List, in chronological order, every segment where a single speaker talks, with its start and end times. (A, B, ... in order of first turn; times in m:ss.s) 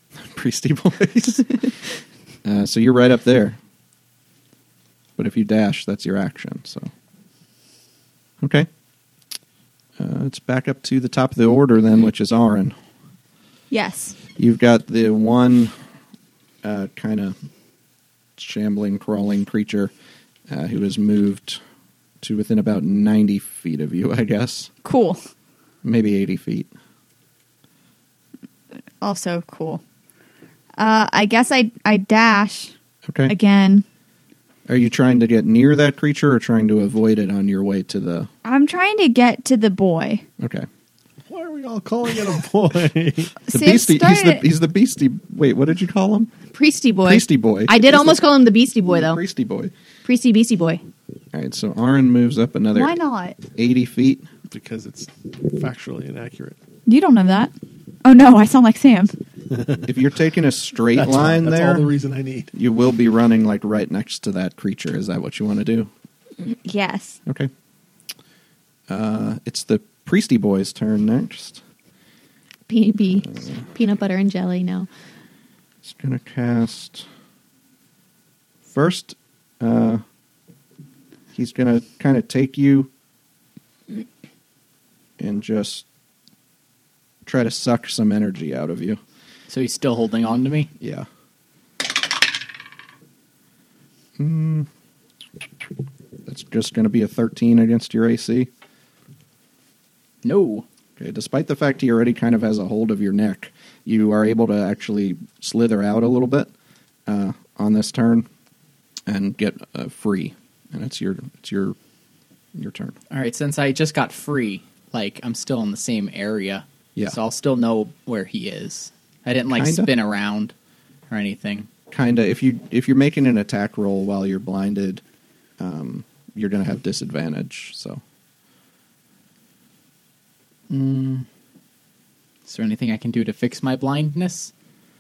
0:00.2-0:01.7 A
0:02.4-0:03.6 A
0:05.2-0:06.9 A
0:08.4-0:08.7 A
0:10.0-0:12.7 A
0:13.7-0:14.2 B
0:14.4-0:15.7 A
0:16.6-0:17.4 A
0:18.4-0:19.9 A
0:20.5-0:21.6 A
0:22.2-0:24.7 A
0:24.8-0:25.2 B
0:25.8-0:26.7 A
0:29.0-0:29.8 B
0:30.8-0:32.7 B
0:33.1-0:33.3 A
0:33.3-0:33.8 B
0:34.7-0:38.3 A
0:38.4-0:40.2 B
0:40.4-0:40.7 A
0:41.3-0:43.4 C
0:43.4-0:44.4 B
0:43.5-0:46.3 A
0:46.5-0:49.2 D
0:47.0-0:48.3 A
0:48.9-0:49.7 A
0:50.0-0:50.8 D
0:51.3-0:53.0 A
0:52.7-0:53.4 B
0:53.6-0:54.3 A
0:54.5-0:56.6 C
0:56.9-0:59.1 B
0:59.5-0:59.8 C
0:59.8-1:01.9 A
1:00.9-1:02.5 C
1:02.5-1:05.9 A
1:06.6-1:07.2 B
1:08.9-1:11.6 A
1:12.7-1:14.9 D
1:13.2-1:13.6 A
1:15.8-1:17.0 A
1:18.7-1:20.0 A
1:21.3-1:22.9 A
1:25.2-1:25.8 A
1:27.2-1:29.0 A
1:29.5-1:30.7 E
1:30.8-1:31.1 A
1:34.2-1:34.7 A
1:36.2-1:38.5 A
1:40.2-1:40.6 E
1:41.0-1:46.5 A
1:47.1-1:48.3 A
1:49.1-1:51.8 A
1:52.5-1:53.0 A
1:53.1-2:00.5 E
1:59.5-1:59.9 A
2:01.1-2:01.7 E
2:01.9-2:05.0 A
2:05.6-2:08.0 A
2:10.7-2:11.2 E
2:12.5-2:14.5 E